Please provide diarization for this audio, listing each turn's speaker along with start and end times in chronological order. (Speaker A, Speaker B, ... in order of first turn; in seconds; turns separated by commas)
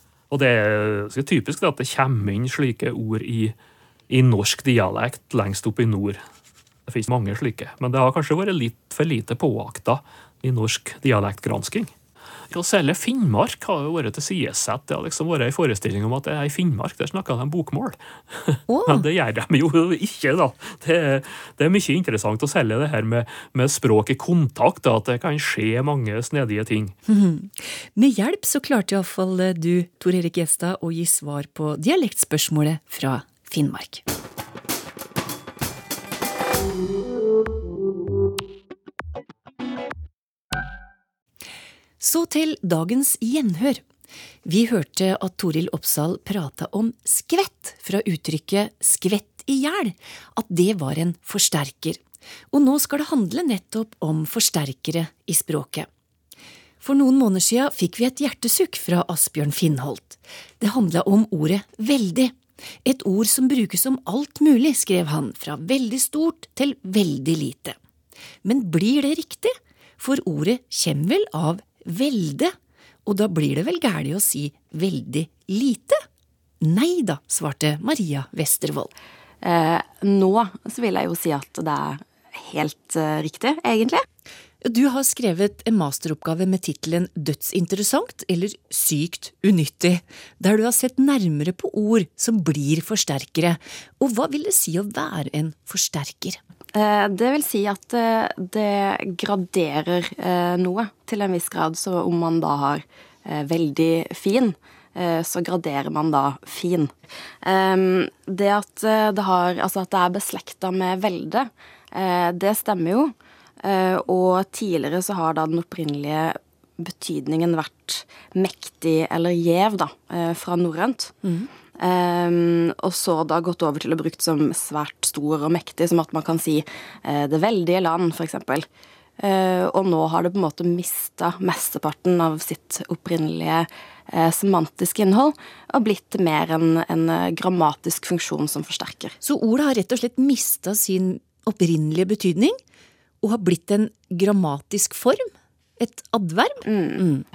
Speaker A: 0.3-3.5, Speaker A: 4.1-6.2, Speaker A: 6.9-11.9, Speaker A: 12.5-26.9, Speaker B: 18.7-19.1, Speaker B: 27.1-34.0, Speaker B: 42.0-43.8, Speaker B: 44.4-52.0, Speaker B: 52.5-55.9, Speaker B: 56.8-67.8, Speaker B: 68.4-72.5, Speaker B: 73.0-76.0, Speaker B: 76.6-78.9, Speaker C: 79.4-84.0, Speaker B: 84.6-96.4, Speaker C: 96.7-121.1, Speaker B: 121.2-121.5, Speaker C: 121.8-128.7, Speaker C: 129.2-139.2, Speaker B: 139.2-142.6, Speaker B: 143.2-147.2, Speaker C: 146.6-147.0